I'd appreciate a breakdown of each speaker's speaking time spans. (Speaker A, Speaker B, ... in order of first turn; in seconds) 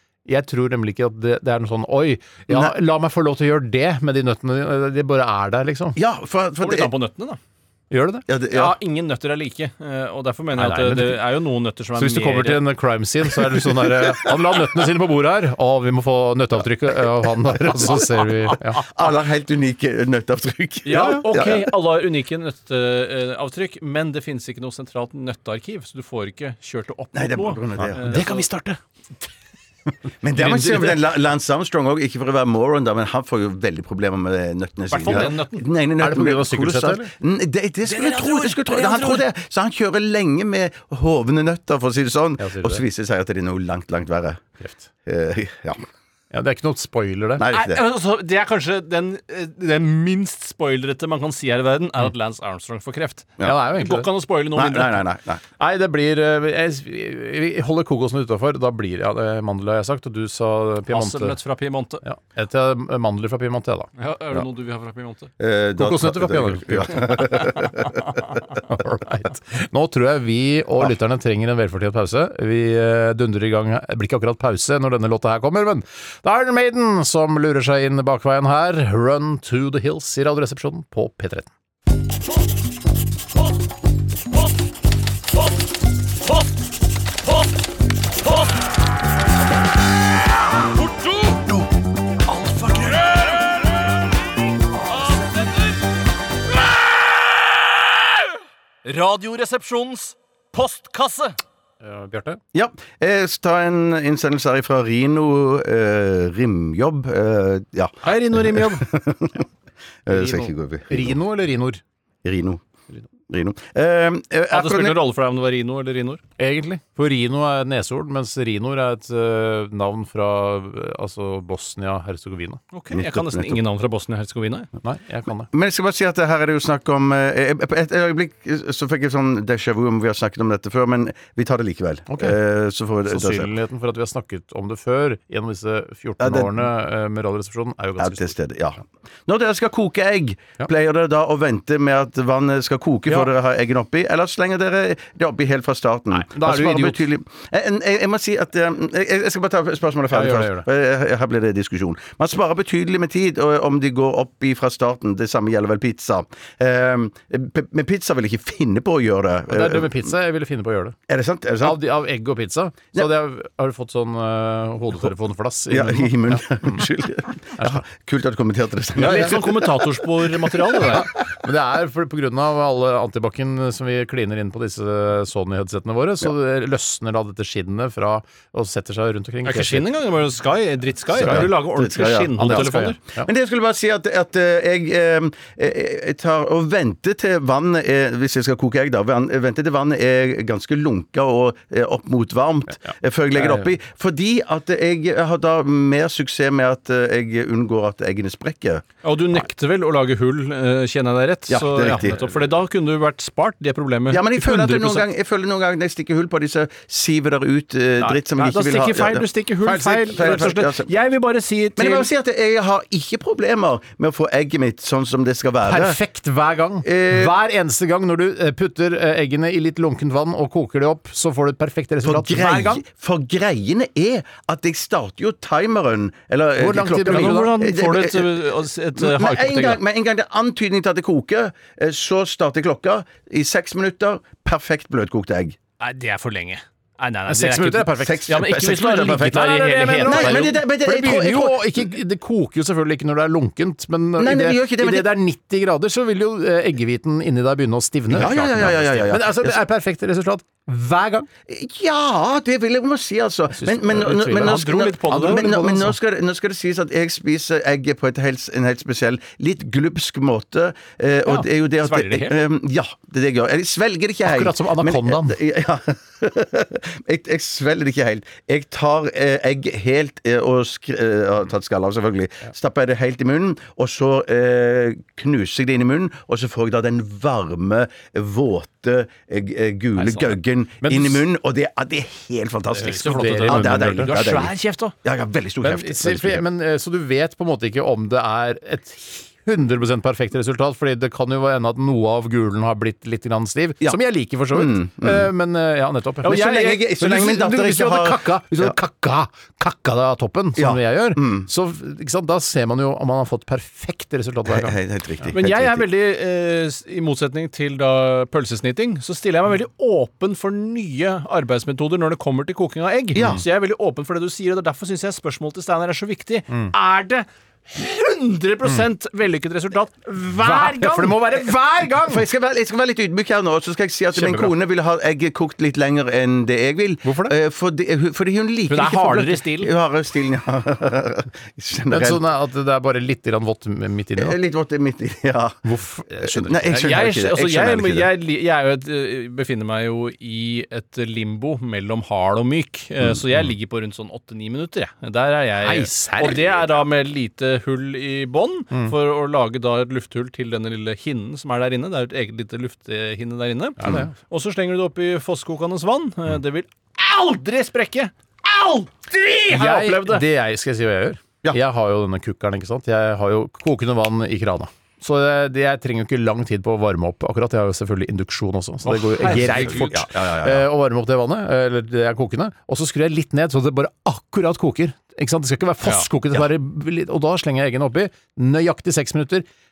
Speaker A: 0.3-6.0, 7.9-8.3, 10.6-11.2, 11.9-18.8, 27.8-28.8, 36.0-37.1, 42.4-42.8, 44.6-44.9, 46.3-47.5, 53.4-54.1, 55.6-61.4, 62.0-63.9, 65.8-67.5, 68.6-81.5, 101.8-102.4, 110.1-111.8, 116.4-122.6, 124.8-125.5, 132.1-132.4, 133.1-138.3, 146.1-147.1, 150.1-150.7, 159.5-161.0, 161.6-166.8, 167.6-167.8, 170.9-179.9, 181.2-181.5, 182.4-183.3, 193.4-193.7, 209.6-210.5, 215.6-222.8, 226.6-227.5, 237.3-251.3, 253.5-256.0, 264.2-265.4, 280.8-281.2, 282.8-284.1, 285.6-305.3, 320.2-322.2, 324.1-324.5, 327.0-327.4, 331.9-334.4, 335.6-336.9, 345.6-346.4, 353.8-354.1, 359.5-379.4
Speaker B: 2.5-2.8, 6.0-6.9, 8.3-8.8, 13.8-14.3, 18.8-21.7, 27.1-28.2, 30.2-44.4, 45.0-45.8, 47.4-47.8, 54.5-55.4, 65.4-68.2, 102.5-109.5, 110.1-111.2, 112.2-112.6, 113.3-115.0, 122.9-123.6, 125.5-133.5, 136.2-136.7, 138.0-160.1, 161.1-161.8, 165.7-171.0, 181.2-198.9, 201.5-202.2, 204.1-209.2, 210.1-210.9, 211.8-216.0, 216.8-217.3, 222.0-228.4, 229.0-235.6, 238.0-241.9, 244.2-245.1, 248.1-249.6, 251.5-284.5, 285.0-286.4, 294.5-295.3, 296.2-298.8, 300.6-301.5, 304.5-305.9, 313.1-313.4, 322.1-332.2, 334.2-335.7, 336.2-338.1, 369.3-370.7
Speaker C: 6.6-7.4, 8.5-12.7, 20.9-28.5, 30.4-31.1, 34.9-35.7, 37.9-39.2, 47.5-55.0, 60.9-62.0, 64.0-65.3, 90.8-91.6, 92.3-93.7, 94.9-95.8, 98.8-101.4, 108.0-108.9, 114.5-116.2, 122.7-124.7, 169.0-171.1, 179.4-183.0, 199.0-205.1, 208.0-212.1, 227.0-229.8, 235.8-240.6, 254.3-255.4, 261.8-262.4, 280.0-280.4, 282.7-284.9, 305.3-321.4, 328.7-329.7, 336.8-360.2, 368.9-370.0, 375.8-376.1